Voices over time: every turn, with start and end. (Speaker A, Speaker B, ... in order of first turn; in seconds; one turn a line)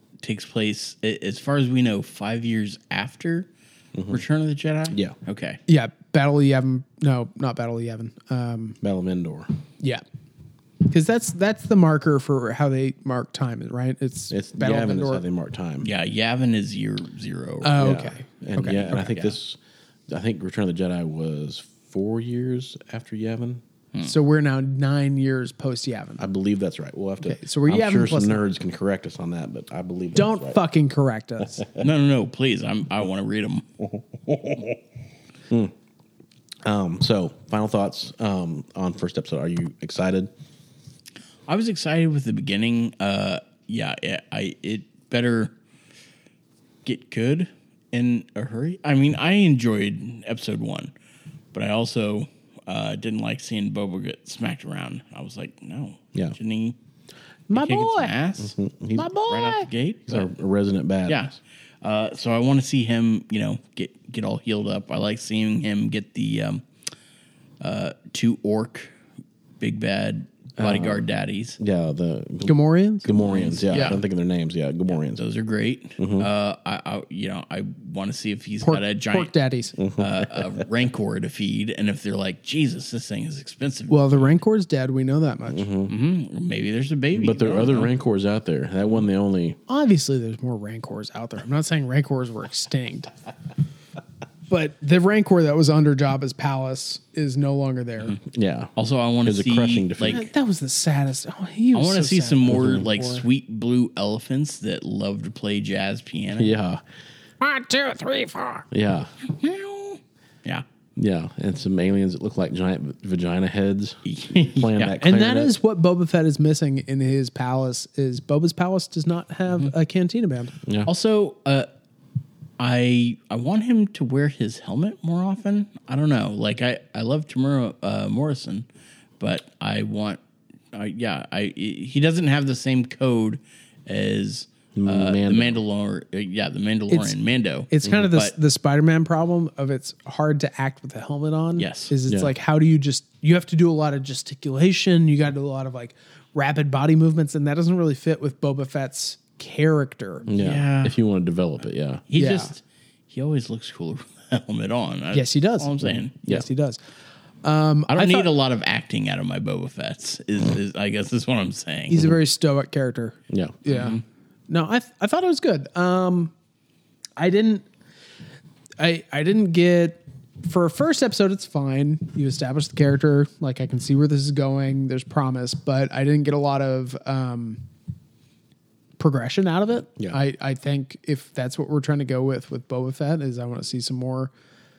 Speaker A: 0.2-3.5
Speaker B: 3.9-4.2
Speaker A: 4.1-5.6
Speaker C: 5.7-8.8
Speaker B: 8.8-9.5
Speaker C: 10.9-15.2
Speaker B: 14.3-15.9
Speaker A: 15.8-17.9
Speaker C: 17.6-19.0
Speaker B: 17.8-19.6
Speaker A: 18.8-19.4
Speaker B: 20.1-23.6
Speaker C: 24.0-26.2
Speaker B: 26.2-30.6
Speaker C: 27.2-28.5
Speaker C: 30.1-31.6
Speaker A: 31.8-34.4
Speaker B: 36.6-40.3
Speaker A: 41.5-45.5
Speaker A: 46.9-50.9
Speaker A: 51.5-56.8
Speaker C: 57.5-58.1
Speaker A: 57.5-58.6
Speaker B: 58.4-59.1
Speaker C: 59.0-59.7
Speaker A: 59.2-60.3
Speaker B: 60.1-61.3
Speaker A: 61.1-66.6
Speaker A: 67.6-68.9
Speaker A: 69.6-71.6
Speaker B: 70.6-71.0
Speaker B: 71.6-75.2
Speaker C: 72.5-73.1
Speaker A: 73.2-74.0
Speaker A: 75.2-79.3
Speaker B: 76.0-76.3
Speaker C: 78.6-79.8
Speaker B: 79.8-80.6
Speaker A: 80.0-84.3
Speaker C: 83.9-85.7
Speaker B: 85.5-85.9
Speaker A: 85.9-87.9
Speaker B: 87.2-89.6
Speaker C: 89.7-93.1
Speaker C: 94.5-98.2
Speaker B: 98.3-98.7
Speaker A: 98.8-100.3
Speaker B: 99.2-100.2
Speaker C: 100.0-103.2
Speaker A: 101.7-106.5
Speaker B: 102.5-102.9
Speaker B: 106.3-106.8
Speaker C: 107.4-108.7
Speaker B: 108.7-109.1
Speaker A: 109.3-110.7
Speaker B: 111.0-115.6
Speaker A: 114.0-115.1
Speaker C: 115.0-120.5
Speaker B: 120.7-120.9
Speaker A: 120.8-121.7
Speaker A: 122.6-128.7
Speaker A: 129.2-130.2
Speaker A: 130.7-138.3
Speaker B: 134.8-135.6
Speaker C: 136.9-137.2
Speaker C: 137.7-150.3
Speaker B: 137.8-138.1
Speaker A: 141.6-141.9
Speaker B: 142.1-142.3
Speaker B: 150.3-152.1
Speaker A: 150.3-151.0
Speaker A: 152.1-156.2
Speaker C: 152.2-152.5
Speaker C: 155.1-156.8
Speaker C: 157.4-158.3
Speaker A: 157.9-162.1
Speaker C: 161.9-166.3
Speaker B: 163.3-163.6
Speaker A: 163.7-164.0
Speaker C: 167.2-167.7
Speaker C: 168.8-177.6
Speaker C: 179.0-184.3